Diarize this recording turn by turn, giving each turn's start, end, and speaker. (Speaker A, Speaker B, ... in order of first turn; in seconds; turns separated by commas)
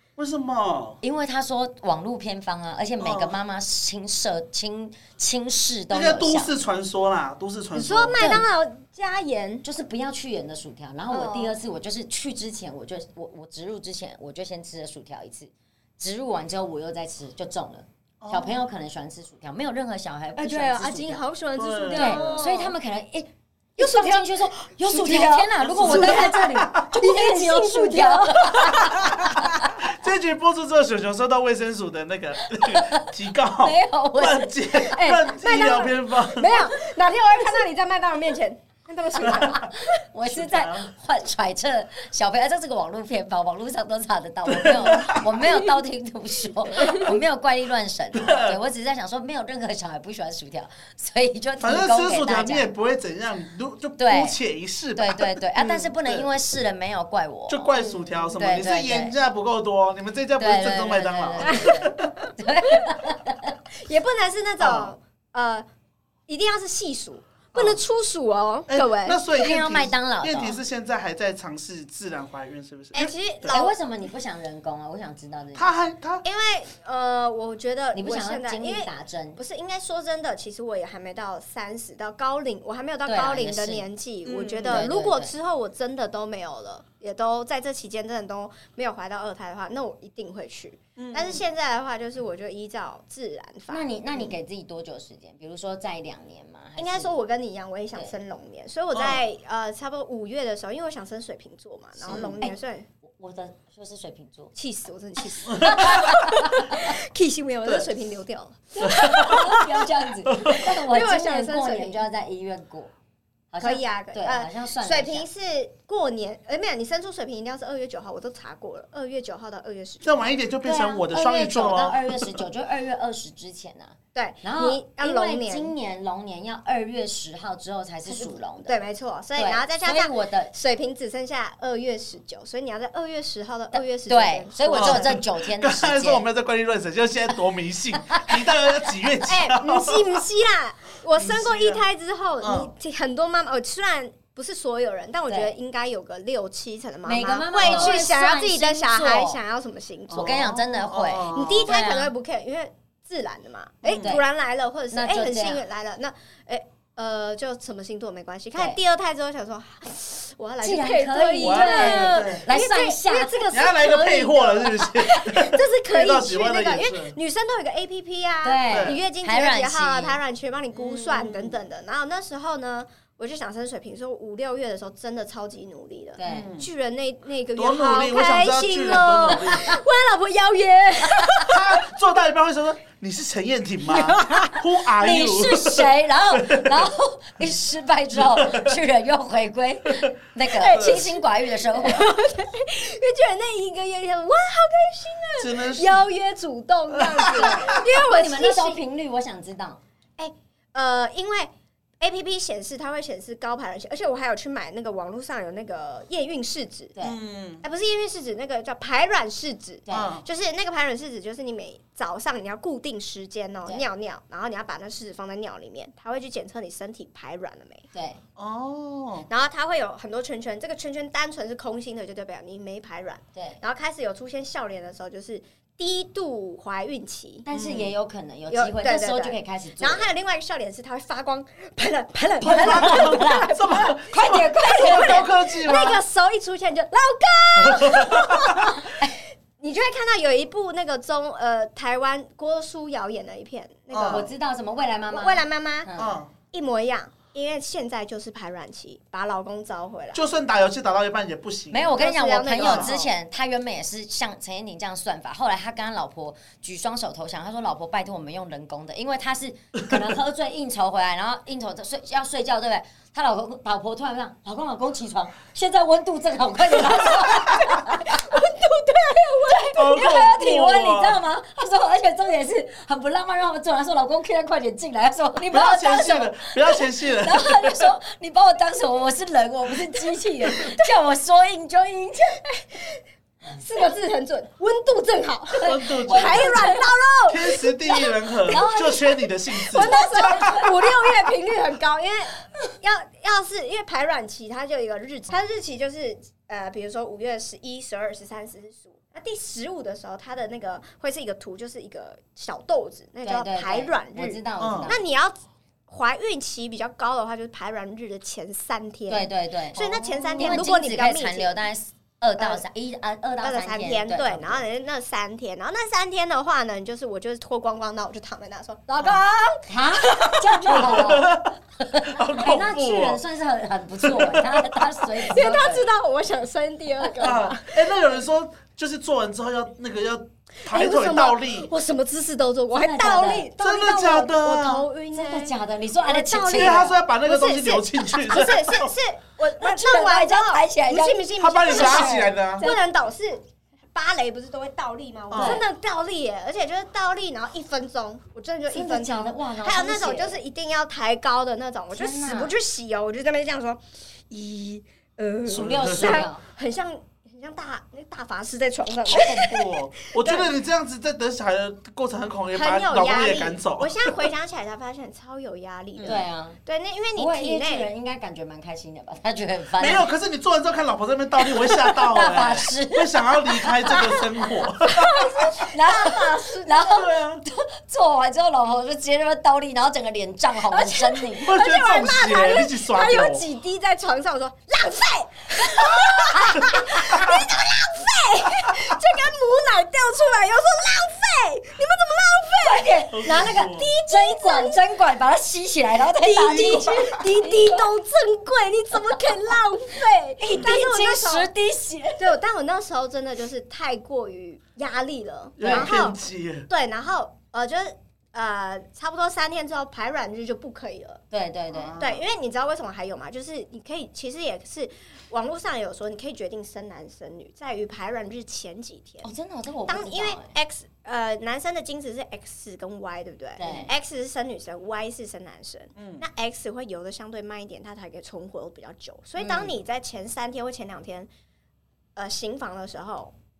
Speaker A: 0.2-1.0, Speaker B: 1.0-6.5, Speaker A: 3.0-3.4, Speaker A: 5.9-8.4, Speaker C: 7.7-9.6, Speaker B: 8.2-8.4, Speaker B: 9.6-21.2, Speaker C: 11.1-11.5, Speaker A: 18.2-18.6, Speaker C: 20.4-22.7, Speaker A: 21.5-22.5, Speaker B: 21.9-29.7, Speaker C: 23.8-29.5, Speaker A: 25.6-26.9, Speaker A: 29.4-36.7, Speaker B: 32.6-34.6, Speaker C: 34.8-39.7, Speaker B: 39.2-52.7, Speaker A: 39.2-39.6, Speaker A: 40.3-40.9, Speaker A: 44.5-45.3, Speaker C: 46.8-47.1, Speaker A: 48.1-48.6, Speaker A: 51.6-56.3, Speaker B: 54.0-54.4, Speaker B: 54.9-57.7, Speaker A: 57.5-62.1, Speaker C: 57.7-58.3, Speaker B: 58.4-59.1, Speaker B: 60.4-63.6, Speaker C: 61.4-62.3, Speaker C: 63.7-65.7, Speaker A: 64.6-64.9, Speaker C: 66.3-69.2, Speaker A: 67.5-67.8, Speaker A: 68.7-73.6, Speaker B: 69.3-70.6, Speaker C: 72.9-73.7, Speaker B: 73.5-75.7, Speaker A: 75.5-76.2, Speaker C: 76.2-94.2, Speaker B: 77.9-79.4, Speaker B: 83.0-83.9, Speaker A: 84.2-84.9, Speaker B: 84.7-85.3, Speaker A: 91.0-91.4, Speaker B: 93.7-97.2, Speaker C: 96.8-102.9, Speaker A: 98.9-99.2, Speaker B: 102.0-104.5, Speaker C: 104.5-109.6, Speaker A: 105.5-106.1, Speaker B: 105.6-106.9, Speaker B: 108.8-112.9, Speaker A: 108.8-109.6, Speaker A: 110.3-110.6, Speaker C: 110.5-112.0, Speaker B: 113.5-115.3, Speaker C: 113.6-120.3, Speaker A: 120.0-122.3, Speaker B: 120.6-128.7, Speaker C: 124.1-125.7, Speaker C: 128.1-135.2, Speaker B: 129.3-130.5, Speaker B: 133.7-136.2, Speaker A: 134.7-140.2, Speaker B: 138.1-138.3, Speaker C: 139.2-150.4, Speaker A: 141.2-141.8, Speaker A: 142.4-142.7, Speaker B: 145.3-145.5, Speaker B: 147.0-149.4, Speaker A: 147.6-148.0, Speaker A: 150.1-151.7, Speaker B: 150.1-152.1, Speaker C: 151.3-181.8, Speaker B: 153.9-154.2, Speaker B: 154.9-155.6, Speaker B: 160.6-163.5, Speaker A: 161.4-162.5, Speaker A: 163.5-167.1, Speaker B: 168.4-170.2, Speaker A: 168.7-169.0, Speaker A: 170.7-171.6, Speaker B: 176.2-176.5, Speaker A: 176.2-176.7, Speaker A: 177.6-179.8, Speaker B: 181.2-181.4, Speaker A: 181.4-186.9, Speaker C: 183.9-184.6, Speaker B: 185.0-192.1, Speaker A: 188.1-188.8, Speaker C: 190.5-191.2, Speaker A: 190.7-191.2, Speaker C: 191.7-198.8, Speaker A: 195.4-196.0, Speaker A: 196.9-197.8, Speaker B: 197.3-199.8, Speaker C: 200.2-206.9, Speaker A: 207.0-207.6, Speaker C: 207.6-217.9, Speaker B: 209.8-210.2, Speaker A: 209.9-210.2, Speaker B: 217.9-218.2, Speaker A: 218.4-219.3, Speaker C: 219.3-227.4, Speaker B: 227.4-230.1, Speaker A: 227.5-227.9, Speaker C: 228.5-238.9, Speaker A: 232.4-236.0, Speaker B: 232.4-233.5, Speaker B: 234.1-235.3, Speaker A: 237.6-238.7, Speaker C: 239.6-244.3, Speaker A: 243.9-244.3, Speaker B: 244.1-246.2, Speaker C: 245.1-245.9, Speaker A: 246.0-246.3, Speaker C: 246.5-250.2, Speaker A: 250.1-252.0, Speaker B: 251.7-268.4, Speaker C: 252.0-253.1, Speaker A: 252.6-253.0, Speaker C: 267.1-270.1, Speaker B: 269.5-282.4, Speaker A: 269.8-271.2, Speaker A: 275.5-277.8, Speaker C: 280.5-280.8, Speaker C: 282.4-283.0, Speaker C: 283.6-288.5, Speaker B: 285.6-286.8, Speaker A: 285.6-286.6, Speaker A: 287.3-290.6, Speaker B: 288.5-289.2, Speaker C: 289.5-305.4, Speaker B: 289.7-290.9, Speaker B: 303.2-305.0, Speaker A: 304.6-304.9, Speaker C: 305.9-311.5, Speaker B: 309.1-309.8, Speaker A: 309.7-310.6, Speaker B: 310.4-314.6, Speaker C: 312.4-312.6, Speaker C: 313.4-320.9, Speaker B: 319.7-325.9, Speaker A: 320.7-323.2, Speaker A: 324.0-324.8, Speaker C: 325.3-327.9, Speaker B: 327.0-327.3, Speaker A: 327.2-331.7, Speaker C: 330.6-360.5, Speaker B: 332.7-333.5, Speaker A: 333.6-334.9, Speaker B: 335.1-336.9, Speaker A: 336.5-338.9, Speaker B: 339.6-342.8, Speaker A: 341.4-342.7, Speaker A: 345.3-345.6, Speaker B: 345.3-345.6, Speaker B: 348.7-350.4, Speaker B: 351.9-352.5, Speaker B: 355.5-356.4, Speaker A: 355.5-356.3, Speaker A: 359.1-364.3, Speaker C: 362.5-367.9, Speaker B: 366.0-366.6, Speaker B: 367.1-370.1, Speaker A: 369.8-375.3, Speaker B: 371.6-374.2, Speaker C: 374.9-377.0, Speaker B: 375.1-381.5, Speaker A: 376.9-377.4, Speaker C: 380.7-394.9, Speaker A: 381.4-383.4, Speaker B: 386.3-386.8, Speaker B: 392.6-397.8, Speaker A: 393.1-393.9, Speaker A: 396.3-397.2, Speaker C: 396.4-401.5, Speaker B: 400.4-402.3, Speaker C: 402.2-411.2, Speaker A: 405.6-406.7, Speaker B: 405.6-405.9, Speaker B: 411.3-411.9, Speaker A: 411.7-412.2, Speaker C: 412.0-419.3, Speaker B: 419.2-420.5, Speaker C: 419.9-431.3, Speaker B: 423.6-423.9, Speaker A: 426.0-426.2, Speaker B: 429.4-429.7, Speaker C: 432.1-433.3